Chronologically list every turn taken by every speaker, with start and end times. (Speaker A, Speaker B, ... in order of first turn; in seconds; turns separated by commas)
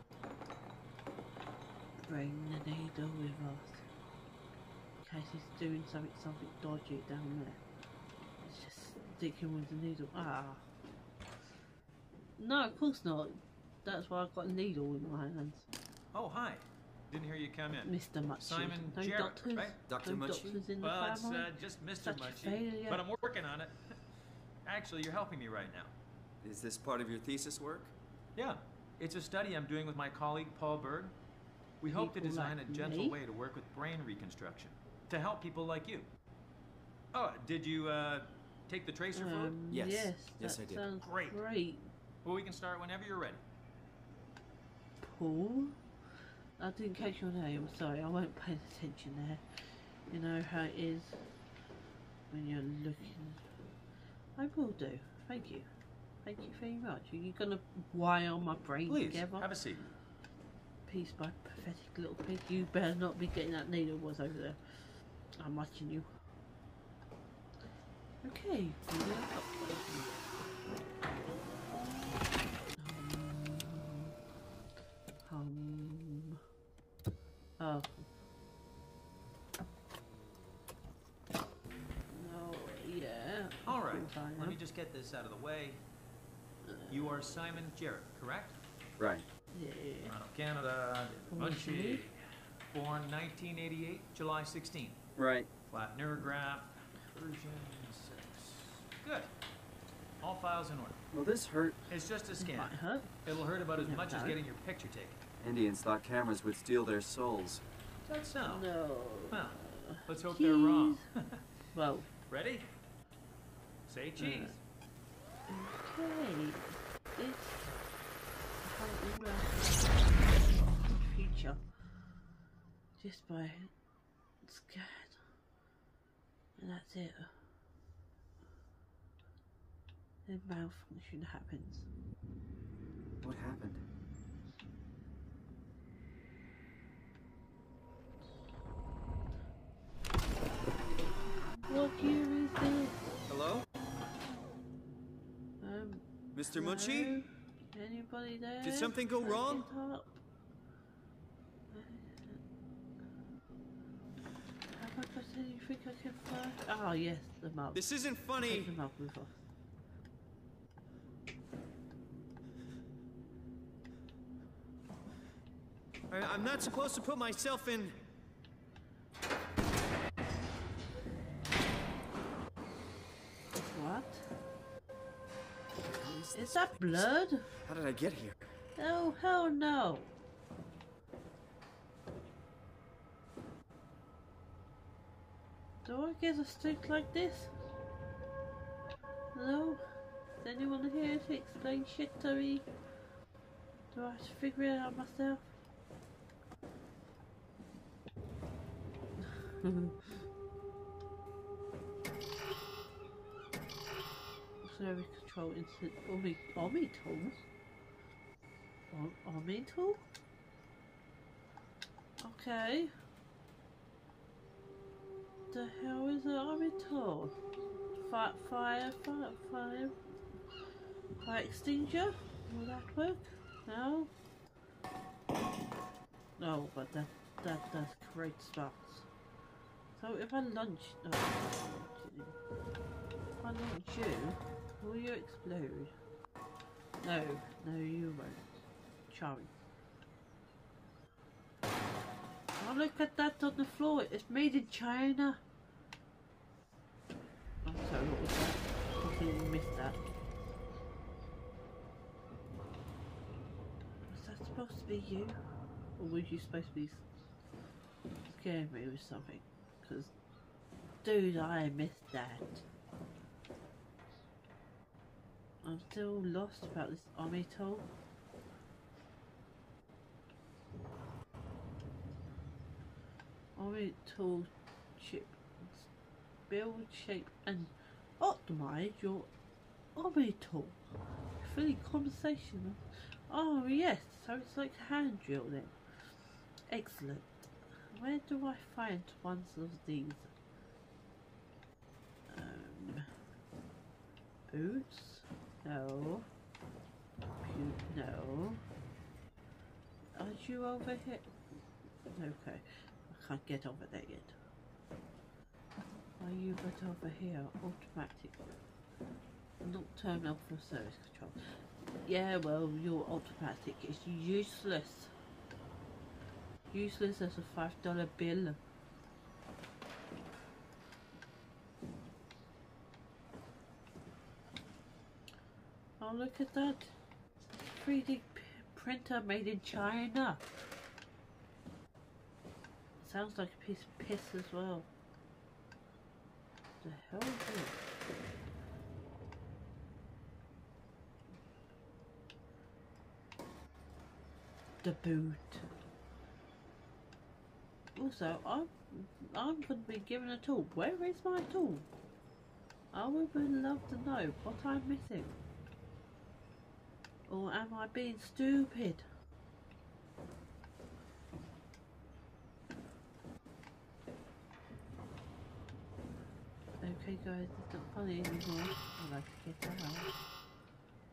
Speaker A: 2.0-3.9, Speaker A: 5.0-7.6, Speaker A: 8.4-10.7, Speaker A: 12.4-15.7, Speaker B: 16.1-19.8, Speaker A: 17.8-23.1, Speaker C: 19.8-20.6, Speaker B: 20.8-24.0, Speaker B: 24.6-25.9, Speaker C: 26.4-27.9, Speaker B: 28.4-31.2, Speaker B: 31.8-36.1, Speaker A: 31.9-33.2, Speaker B: 37.1-39.6, Speaker A: 39.1-41.9, Speaker C: 39.7-40.9, Speaker B: 41.0-41.4, Speaker B: 42.2-43.4, Speaker A: 45.0-45.8, Speaker A: 46.6-51.2, Speaker A: 52.3-53.4, Speaker A: 54.4-55.7, Speaker A: 56.2-59.5, Speaker B: 58.9-59.9, Speaker A: 60.9-66.1, Speaker A: 68.2-70.3, Speaker A: 72.7-74.1, Speaker A: 75.2-76.4, Speaker A: 77.6-78.0, Speaker A: 82.1-84.6, Speaker B: 83.7-85.8, Speaker A: 86.6-87.2, Speaker B: 86.9-88.6, Speaker C: 89.0-89.2, Speaker A: 89.5-90.2, Speaker B: 90.0-95.0, Speaker A: 91.3-92.0, Speaker C: 95.2-95.5, Speaker B: 95.7-99.3, Speaker B: 100.2-101.0, Speaker C: 101.1-101.8, Speaker B: 101.9-105.2, Speaker A: 102.4-104.4, Speaker C: 105.4-107.6, Speaker B: 108.0-108.7, Speaker A: 108.4-111.1, Speaker B: 109.3-111.5, Speaker A: 111.7-112.1, Speaker B: 112.3-112.7, Speaker B: 113.9-114.6, Speaker A: 114.2-114.6, Speaker A: 115.5-117.7, Speaker A: 118.6-121.6, Speaker A: 123.0-123.7, Speaker A: 124.4-125.2, Speaker A: 126.6-127.4, Speaker A: 130.3-131.9, Speaker C: 133.2-133.8, Speaker A: 141.7-143.2, Speaker C: 143.3-143.7, Speaker A: 145.6-150.1, Speaker C: 146.3-147.2, Speaker C: 148.6-149.7, Speaker A: 151.7-152.4, Speaker A: 154.7-159.4, Speaker C: 157.7-158.7, Speaker C: 166.1-168.0, Speaker A: 173.7-174.3, Speaker C: 175.8-178.5, Speaker A: 176.3-177.6, Speaker A: 178.8-180.1, Speaker A: 185.8-187.5, Speaker A: 189.3-189.8, Speaker A: 190.4-192.7, Speaker A: 193.9-195.5, Speaker A: 199.2-200.2, Speaker A: 204.6-207.3, Speaker A: 208.9-210.0, Speaker A: 212.2-212.9, Speaker A: 215.5-217.3, Speaker A: 218.0-219.9, Speaker A: 221.2-224.1, Speaker A: 226.4-229.1, Speaker A: 230.0-232.4, Speaker A: 233.4-235.9, Speaker A: 237.0-238.4, Speaker A: 239.1-239.5, Speaker A: 242.6-245.4, Speaker A: 247.7-250.0, Speaker A: 254.1-255.4, Speaker A: 256.0-257.0, Speaker A: 258.3-260.1, Speaker A: 261.0-262.6, Speaker A: 265.6-267.9, Speaker A: 273.6-275.9, Speaker A: 276.5-279.3, Speaker A: 280.0-280.9, Speaker A: 281.4-285.8, Speaker A: 286.7-290.3, Speaker A: 292.3-293.1, Speaker A: 294.5-296.3, Speaker A: 297.4-298.6, Speaker A: 300.2-301.3, Speaker A: 302.1-304.4, Speaker A: 306.2-308.5, Speaker A: 309.6-315.1, Speaker A: 316.7-318.6, Speaker A: 326.0-326.9, Speaker A: 327.7-330.4, Speaker A: 333.0-334.9, Speaker A: 336.8-337.8, Speaker A: 344.8-345.7, Speaker A: 347.9-351.9, Speaker A: 352.9-355.3, Speaker A: 357.3-359.1, Speaker A: 366.8-370.1